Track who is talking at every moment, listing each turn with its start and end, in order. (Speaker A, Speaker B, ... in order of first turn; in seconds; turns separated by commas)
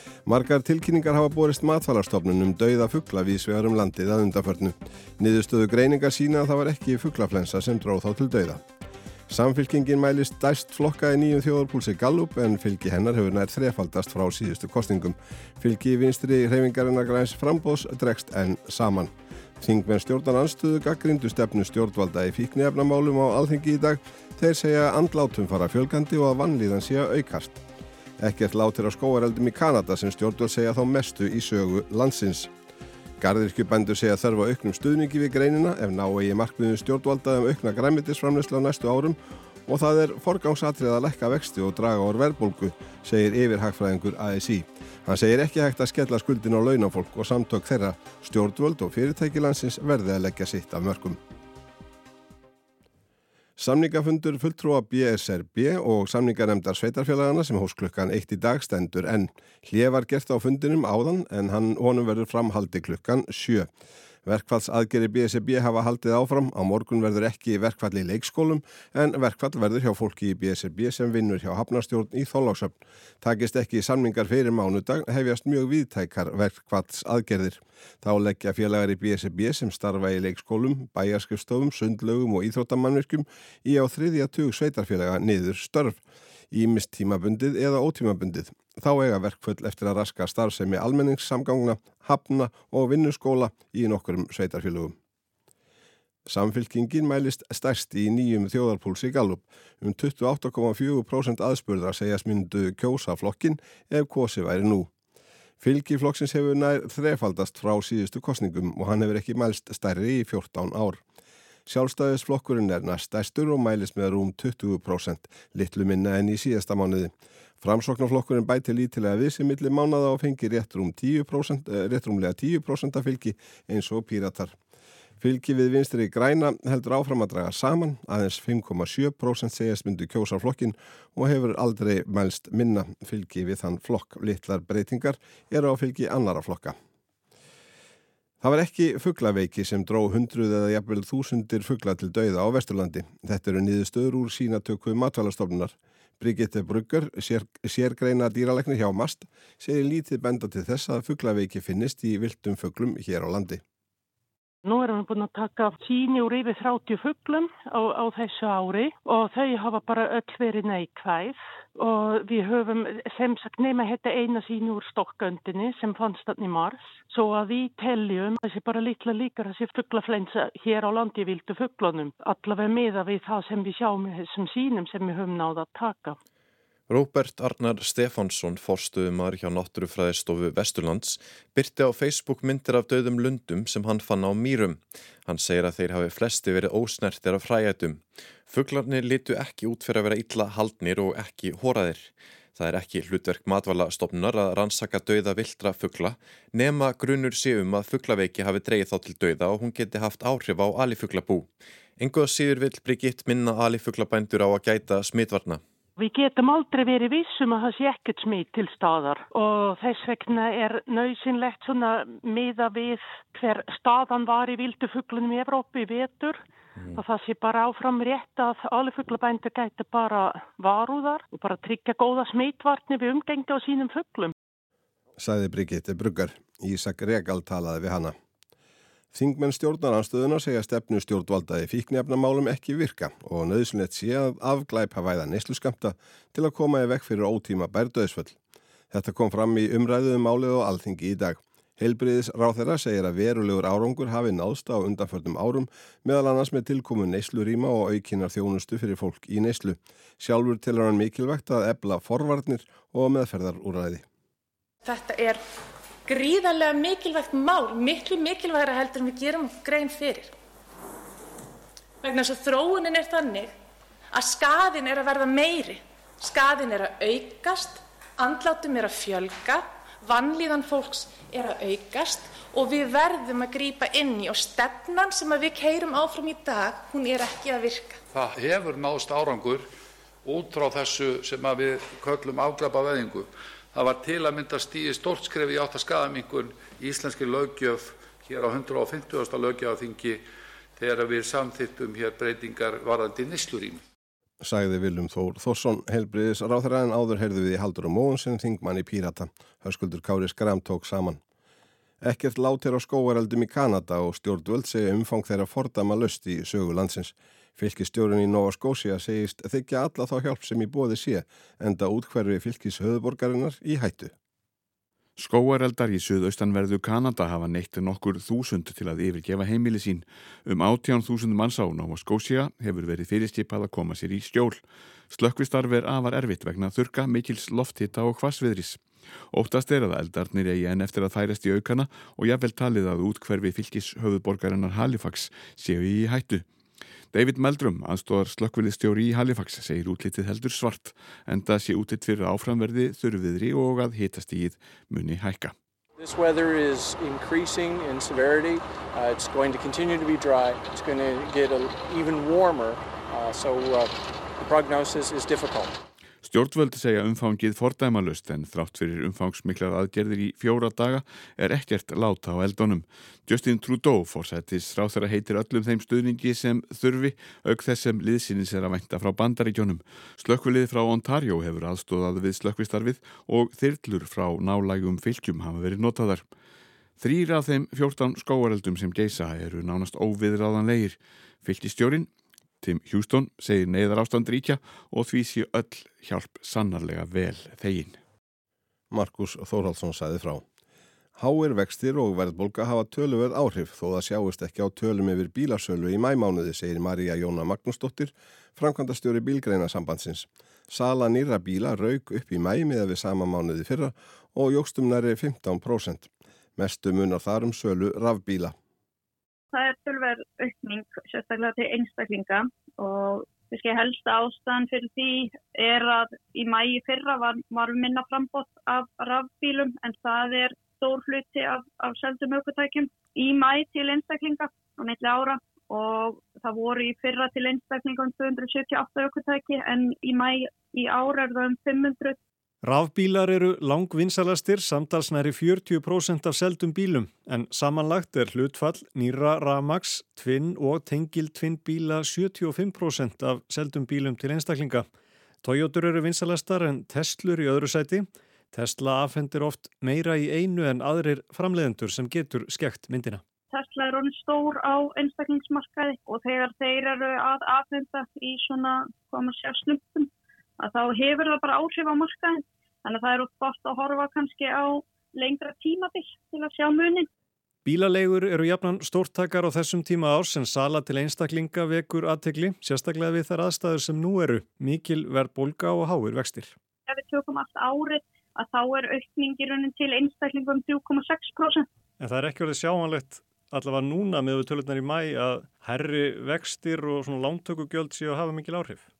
Speaker A: 0.2-8.6, Speaker A: 9.3-27.6, Speaker A: 28.2-32.5, Speaker A: 33.2-51.2, Speaker A: 53.6-63.7, Speaker A: 64.2-86.0, Speaker A: 86.5-95.0, Speaker A: 96.3-104.9, Speaker A: 105.6-111.0, Speaker A: 111.7-124.5, Speaker A: 125.2-136.8, Speaker A: 138.4-153.6, Speaker B: 154.6-176.2, Speaker C: 176.9-205.6, Speaker B: 206.0-224.3, Speaker A: 225.2-228.2, Speaker A: 229.1-238.4, Speaker A: 238.9-254.0, Speaker D: 254.8-255.4, Speaker D: 256.1-260.3, Speaker D: 262.0-263.5, Speaker D: 264.1-278.0, Speaker E: 278.1-279.7, Speaker E: 280.2-290.2, Speaker E: 290.8-293.8, Speaker A: 294.4-301.2, Speaker A: 302.0-314.1, Speaker F: 315.2-336.4, Speaker F: 337.1-345.5, Speaker G: 346.0-355.8, Speaker F: 356.2-376.3, Speaker F: 377.0-382.1, Speaker F: 382.6-388.0, Speaker A: 388.9-390.4, Speaker A: 391.1-408.5, Speaker H: 409.5-432.2, Speaker I: 432.6-444.9, Speaker I: 445.4-453.2, Speaker H: 453.5-467.1, Speaker I: 467.6-476.6, Speaker H: 476.9-481.7, Speaker I: 482.0-488.9